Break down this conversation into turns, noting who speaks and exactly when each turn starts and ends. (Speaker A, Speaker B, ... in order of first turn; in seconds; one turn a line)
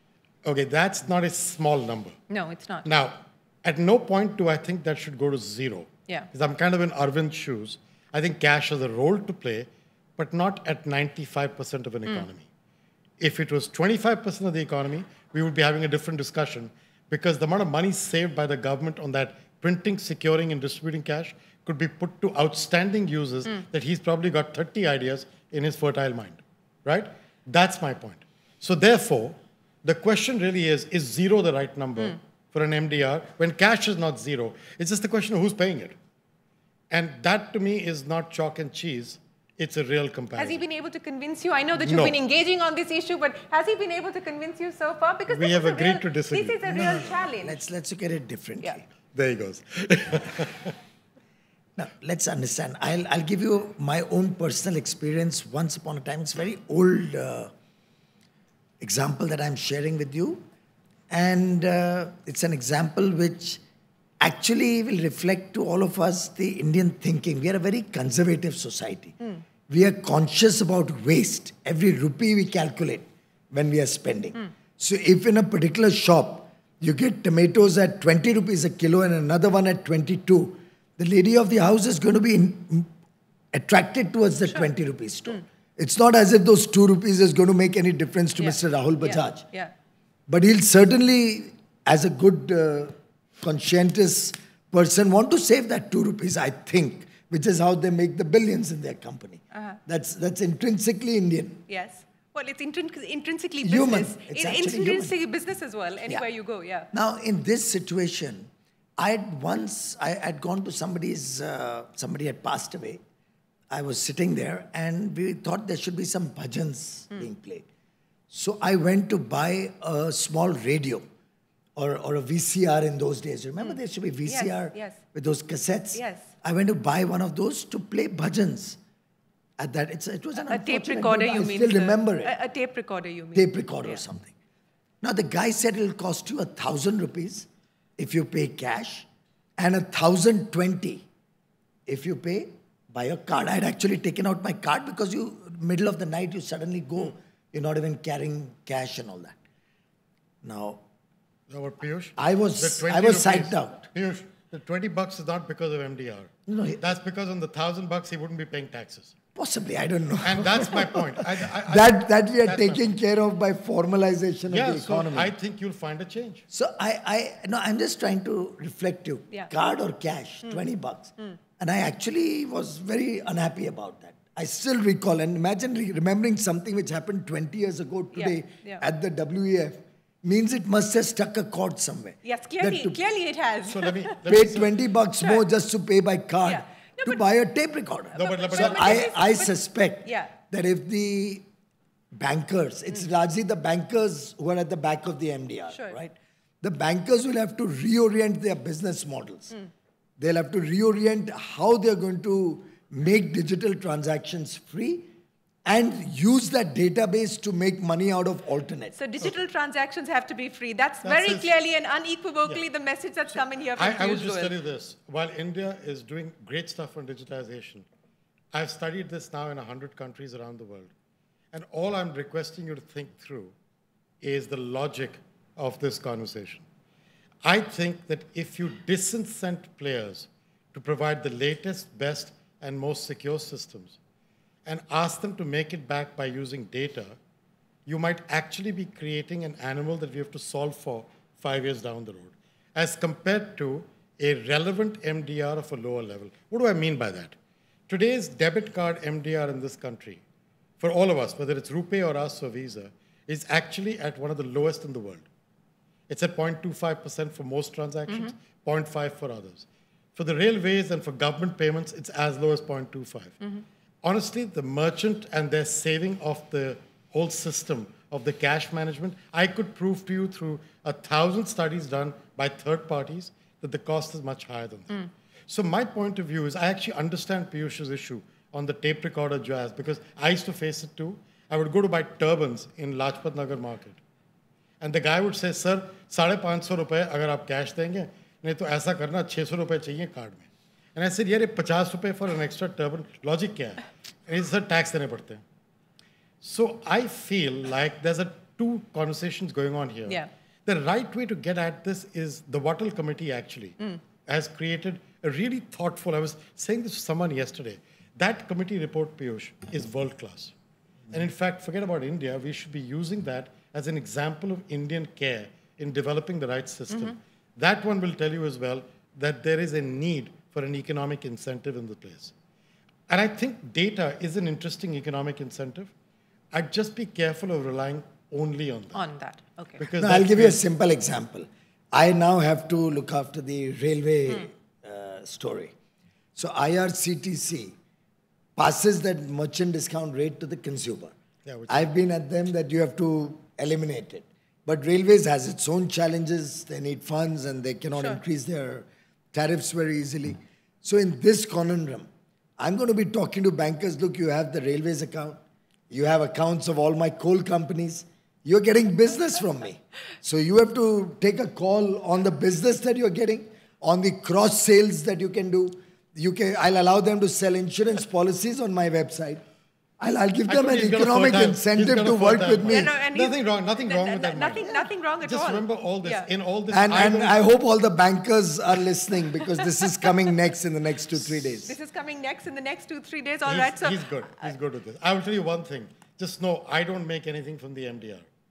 Speaker A: 0.4-2.2
Speaker B: 2.3-2.9
Speaker A: 2.9-12.4
Speaker A: 13.2-36.0
Speaker A: 36.9-40.6
Speaker B: 40.4-47.6
Speaker A: 41.8-42.1
Speaker A: 45.3-46.6
Speaker C: 46.6-48.9
Speaker A: 49.1-50.8
Speaker C: 51.8-57.5
Speaker C: 58.8-60.5
Speaker C: 61.1-63.6
Speaker C: 64.2-69.1
Speaker C: 69.7-82.9
Speaker C: 83.5-89.5
Speaker B: 88.4-89.7
Speaker C: 90.3-101.6
Speaker B: 101.7-106.9
Speaker C: 103.6-105.1
Speaker C: 106.9-113.0
Speaker C: 113.7-117.7
Speaker C: 118.3-121.0
Speaker C: 121.8-128.8
Speaker B: 124.2-125.0
Speaker B: 125.9-126.3
Speaker C: 129.6-132.3
Speaker B: 130.4-134.0
Speaker C: 133.3-134.3
Speaker C: 135.0-139.1
Speaker C: 139.6-141.1
Speaker C: 141.9-149.4
Speaker C: 150.4-150.8
Speaker A: 151.5-159.1
Speaker C: 152.2-153.9
Speaker C: 156.5-156.8
Speaker C: 159.3-165.3
Speaker A: 160.2-162.9
Speaker A: 164.5-166.4
Speaker C: 166.5-183.0
Speaker B: 178.1-178.8
Speaker B: 182.2-184.2
Speaker A: 183.7-184.7
Speaker C: 184.3-191.4
Speaker B: 186.5-187.2
Speaker B: 188.1-189.5
Speaker A: 188.1-189.1
Speaker B: 190.0-190.3
Speaker C: 192.1-199.5
Speaker C: 200.2-205.1
Speaker C: 205.6-208.9
Speaker B: 208.9-214.5
Speaker A: 211.0-211.5
Speaker A: 213.8-217.9
Speaker A: 218.5-220.9
Speaker A: 221.5-223.5
Speaker A: 224.2-226.6
Speaker A: 227.4-234.0
Speaker A: 234.7-237.1
Speaker A: 237.9-247.4
Speaker A: 247.9-250.2
Speaker A: 250.8-255.2
Speaker A: 256.1-263.4
Speaker B: 258.1-258.3
Speaker A: 264.0-284.0
Speaker A: 284.8-295.4
Speaker A: 296.4-303.8
Speaker A: 304.3-310.6
Speaker A: 311.1-322.3
Speaker A: 323.1-325.9
Speaker A: 326.5-329.0
Speaker B: 328.9-329.8
Speaker A: 329.8-330.6
Speaker C: 330.0-335.7
Speaker C: 336.4-337.7
Speaker C: 338.6-341.1
Speaker A: 341.4-341.9
Speaker C: 341.7-369.4
Speaker B: 347.9-348.2
Speaker C: 370.0-372.9
Speaker A: 370.5-377.4
Speaker B: 372.7-376.3
Speaker C: 376.7-381.7
Speaker B: 381.6-384.4
Speaker A: 383.4-388.2